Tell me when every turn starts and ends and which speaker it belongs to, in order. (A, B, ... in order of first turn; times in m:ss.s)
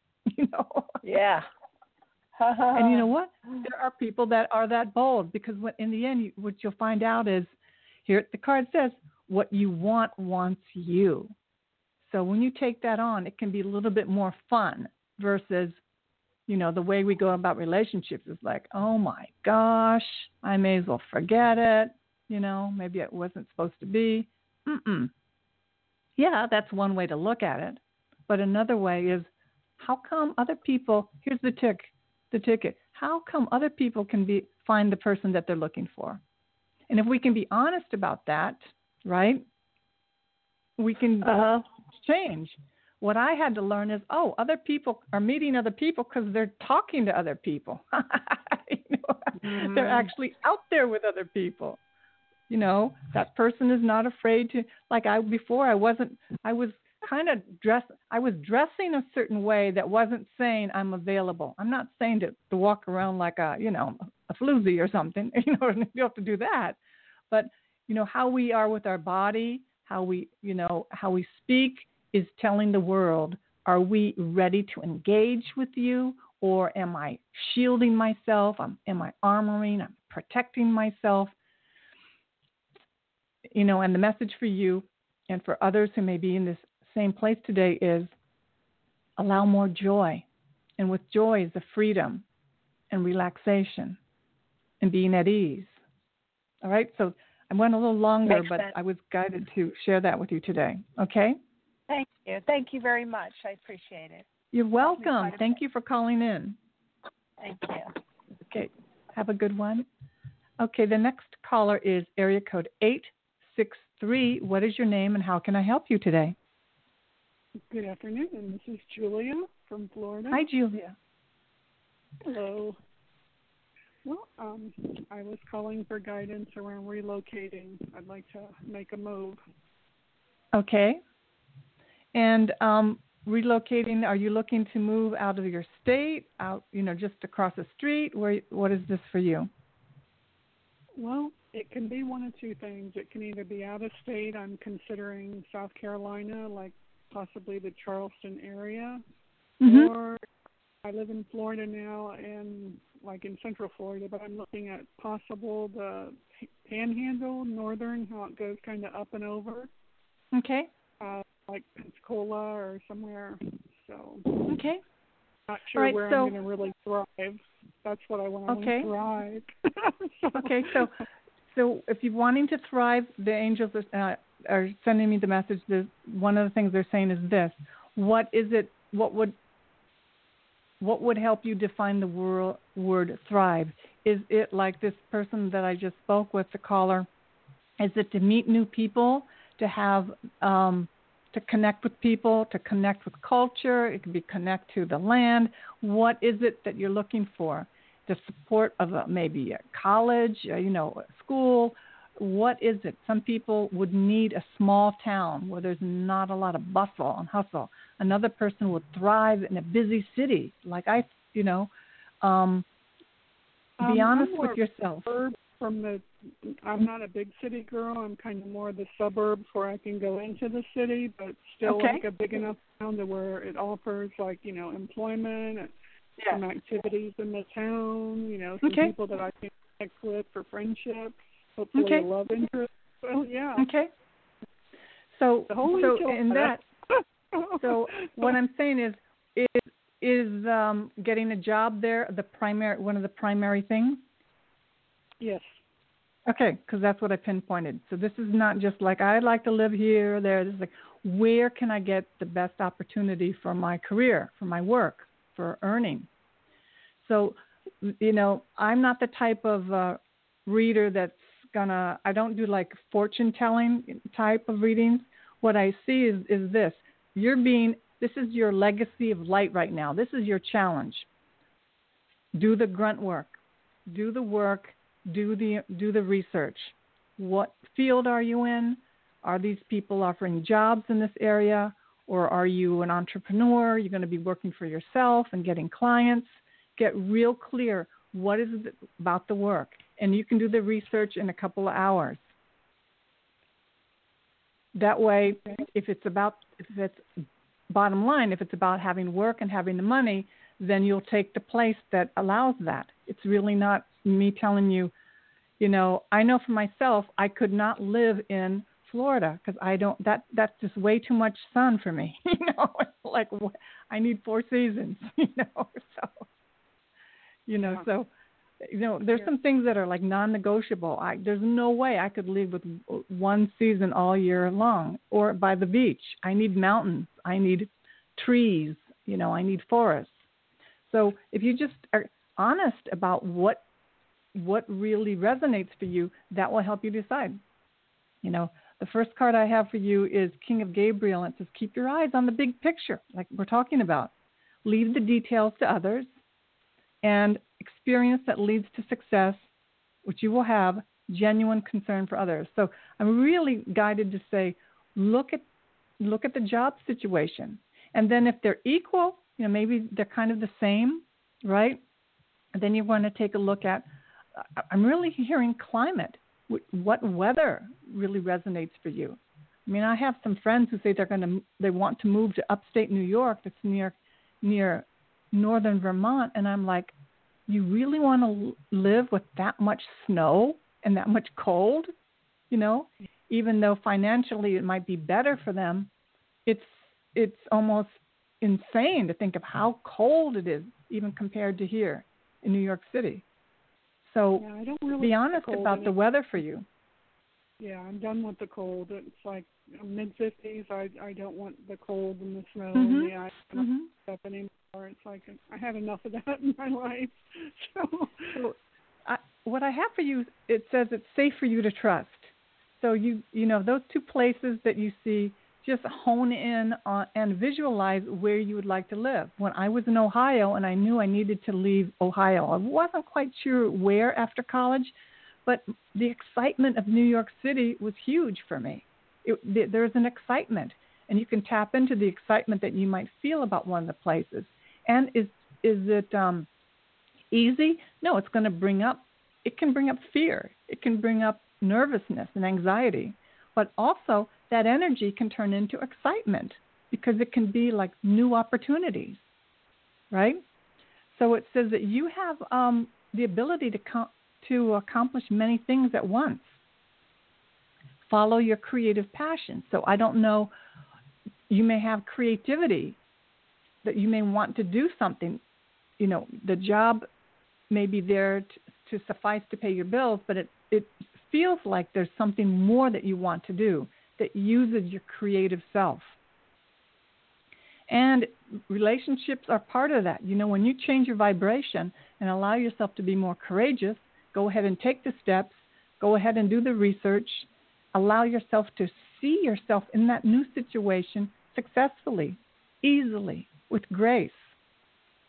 0:00.3-0:01.0 A
0:01.0-0:01.5 B
0:02.4-0:03.0 B
0:02.7-0:07.5 A
0:08.1-0:11.3 A
0:12.0-0:15.8 A
0:16.5-0:25.1 A
0:26.2-0:36.2 A
0:36.9-0:39.4 A
0:40.8-0:41.4 A
0:41.2-0:41.6 B
0:42.0-0:51.8 A
0:49.4-0:50.1 B
0:52.5-1:06.8 A
1:07.3-1:21.3 A
1:23.6-1:28.1 A
1:29.2-1:30.2 A
1:30.8-1:32.2 A
1:32.9-1:34.0 A
1:34.8-1:35.8 A
1:36.6-1:41.4 A
1:38.2-1:38.7 B
1:41.9-1:44.2 B
1:44.5-1:46.6 A
1:44.9-1:45.6 B
1:47.4-1:47.9 B
1:48.5-1:49.9 A
1:50.6-1:56.4 A
1:57.7-2:00.5 C
2:00.3-2:01.0 A
2:02.2-2:02.8 C
2:04.0-2:09.4 C
2:10.5-2:11.0 A
2:12.1-2:19.5 A
2:21.0-2:29.0 C
2:29.6-2:29.9 A
2:29.6-2:30.2 C
2:30.8-2:39.7 C
2:40.3-2:40.7 A
2:41.0-2:44.5 C
2:44.5-2:44.8 A
2:45.5-2:50.8 C
2:45.8-2:46.3 A
2:48.5-2:48.9 A
2:50.4-2:51.0 A
2:51.5-2:59.4 A
3:00.8-3:07.1 A
3:07.8-3:31.7 A
3:32.2-3:32.6 A
3:33.8-3:45.7 C
3:33.8-3:35.1 A
3:41.6-3:42.0 A
3:46.3-3:53.7 C
3:48.6-3:48.9 A
3:51.8-3:52.1 A
3:53.6-3:53.9 A
3:55.2-3:56.6 A
3:55.5-3:58.4 C
3:57.6-4:04.0 A
4:05.2-4:05.6 C
4:06.3-4:16.1 A
4:17.0-4:31.1 A
4:32.4-4:52.2 A
4:54.8-5:04.9 A
5:05.6-5:16.2 A
5:17.5-5:18.1 A
5:18.6-5:30.2 A
5:30.9-5:33.6 A
5:34.4-5:37.4 A
5:38.2-5:44.1 A
5:44.6-5:46.2 A
5:47.0-5:49.5 A
5:50.0-5:55.4 A
5:56.0-6:01.8 A
6:02.6-6:03.9 A
6:04.4-6:16.9 A
6:17.5-6:21.9 A
6:22.5-6:25.9 A
6:26.5-6:33.2 A
6:34.0-6:34.4 A
6:34.4-6:35.9 C
6:35.0-6:36.6 A
6:37.6-6:48.4 C
6:42.8-6:43.9 A
6:48.4-7:04.9 A
7:05.5-7:16.5 A
7:17.3-7:29.2 A
7:30.1-7:30.4 A
7:31.1-7:36.6 A
7:38.1-7:40.5 A
7:41.5-7:43.0 A
7:43.8-7:45.4 A
7:46.0-7:47.1 A
7:47.7-7:56.2 A
7:57.9-8:14.5 A